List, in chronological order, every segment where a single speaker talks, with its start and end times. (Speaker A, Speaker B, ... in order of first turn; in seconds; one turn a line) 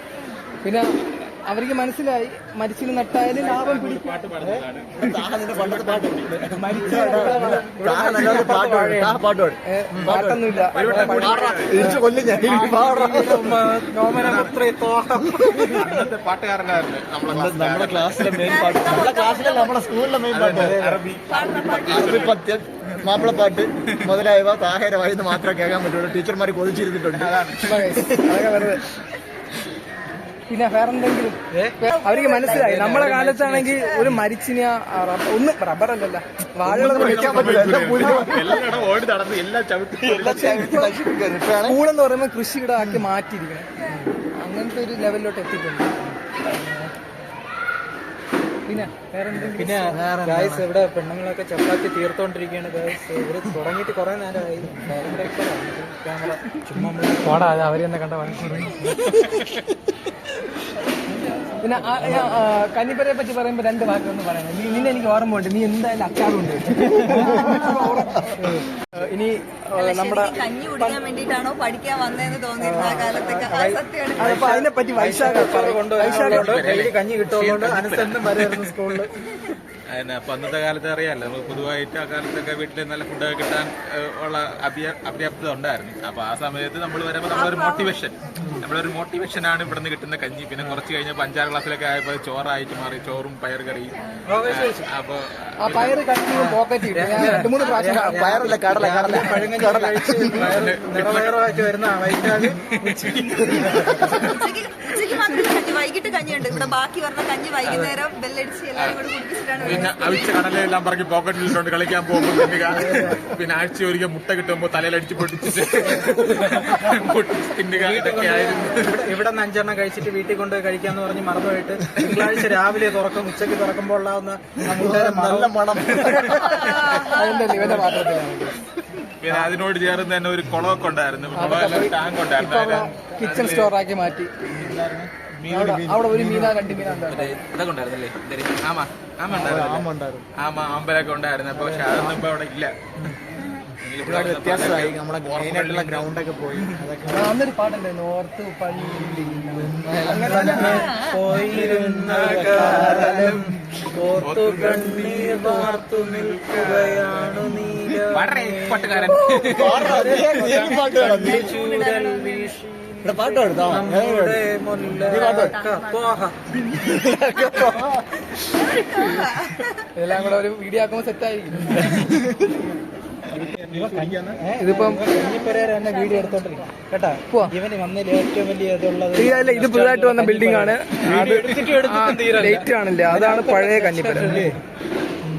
Speaker A: 0.6-4.2
Speaker B: 3.3-6.5
Speaker C: 5.0-10.6
Speaker A: 6.5-12.0
Speaker D: 6.9-8.3
Speaker B: 10.7-11.9
Speaker D: 10.7-15.9
Speaker C: 11.6-13.6
Speaker B: 14.2-14.6
Speaker C: 15.3-16.0
Speaker B: 15.6-18.6
Speaker C: 17.3-20.8
Speaker E: 18.3-19.9
Speaker B: 20.3-23.2
Speaker D: 20.5-21.0
Speaker E: 21.3-22.3
Speaker C: 21.8-27.4
Speaker B: 23.8-24.1
Speaker B: 27.1-28.0
Speaker A: 27.6-28.8
Speaker A: 30.5-37.8
Speaker D: 31.5-31.8
Speaker E: 31.8-32.7
Speaker D: 32.4-34.2
Speaker C: 36.6-38.9
Speaker B: 36.7-40.6
Speaker C: 40.0-41.8
Speaker A: 40.1-41.0
Speaker A: 41.6-43.7
Speaker A: 44.4-46.9
Speaker A: 48.6-50.0
Speaker D: 49.4-57.6
Speaker C: 49.9-50.7
Speaker A: 57.2-59.4
Speaker B: 59.0-59.6
Speaker A: 61.6-71.0
Speaker D: 61.8-62.4
Speaker C: 66.9-68.3
Speaker D: 67.0-67.5
Speaker E: 69.7-74.6
Speaker A: 72.6-73.4
Speaker D: 72.6-79.1
Speaker A: 74.2-76.7
Speaker B: 76.0-79.0
Speaker B: 79.9-96.0
Speaker E: 87.3-88.0
Speaker D: 94.3-94.9
Speaker A: 95.6-98.3
Speaker D: 96.3-104.2
Speaker E: 97.6-98.0
Speaker C: 98.0-100.5
Speaker B: 100.3-101.4
Speaker B: 102.2-103.4
Speaker E: 104.1-110.5
Speaker D: 107.6-108.0
Speaker B: 109.6-119.1
Speaker D: 112.6-113.2
Speaker D: 117.7-125.6
Speaker C: 124.6-126.9
Speaker E: 126.2-127.8
Speaker A: 126.8-128.6
Speaker B: 129.2-133.7
Speaker A: 131.3-134.3
Speaker C: 134.5-137.2
Speaker A: 135.5-137.3
Speaker B: 137.1-139.8
Speaker C: 139.3-140.3
Speaker B: 140.4-142.7
Speaker D: 141.6-142.1
Speaker B: 143.8-146.8
Speaker C: 144.0-147.4
Speaker A: 147.1-150.9
Speaker C: 149.1-153.5
Speaker D: 150.1-167.7
Speaker E: 150.7-151.2
Speaker B: 152.1-152.6
Speaker A: 152.8-153.4
Speaker B: 154.2-159.9
Speaker E: 159.2-162.5
Speaker C: 159.5-161.6
Speaker C: 163.0-165.6
Speaker E: 165.0-166.6
Speaker C: 166.7-168.1
Speaker E: 168.5-169.8
Speaker A: 169.0-169.3
Speaker A: 169.9-172.1
Speaker C: 171.7-172.6
Speaker B: 173.3-174.3
Speaker C: 173.3-174.3
Speaker D: 173.7-184.6
Speaker A: 174.6-175.0
Speaker E: 175.1-176.4
Speaker A: 179.1-184.5
Speaker C: 184.2-184.6